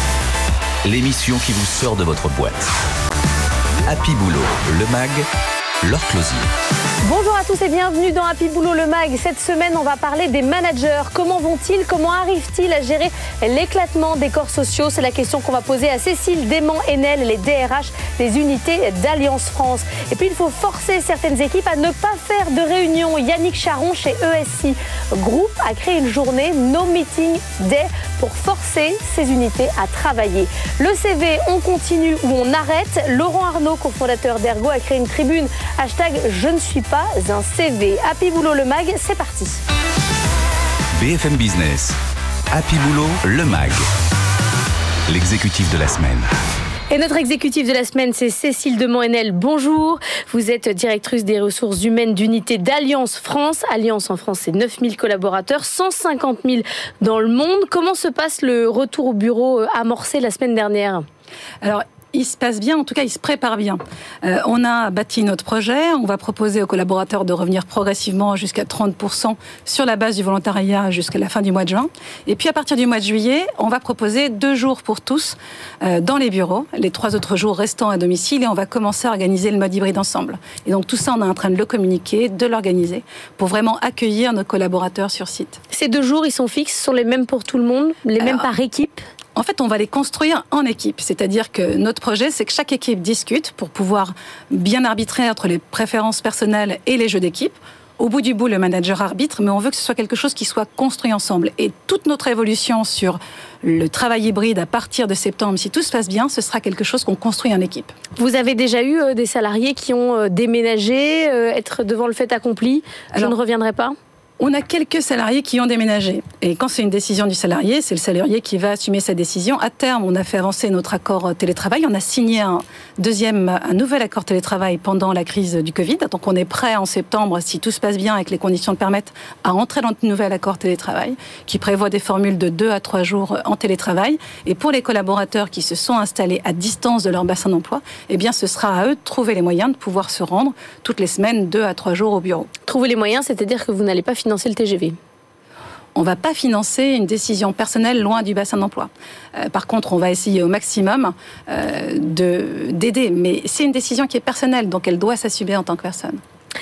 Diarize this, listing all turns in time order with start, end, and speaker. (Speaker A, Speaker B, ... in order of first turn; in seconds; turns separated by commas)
Speaker A: 0.8-2.7, Speaker A: 3.9-5.3, Speaker A: 5.8-6.5, Speaker B: 7.0-39.6, Speaker A: 40.9-42.0, Speaker A: 42.5-43.9, Speaker A: 45.1-46.3, Speaker B: 46.9-61.0, Speaker C: 61.6-85.6, Speaker B: 85.7-89.0, Speaker C: 89.3-107.9, Speaker B: 108.2-114.0, Speaker C: 114.4-142.5, Speaker B: 142.7-144.9, Speaker C: 145.9-156.2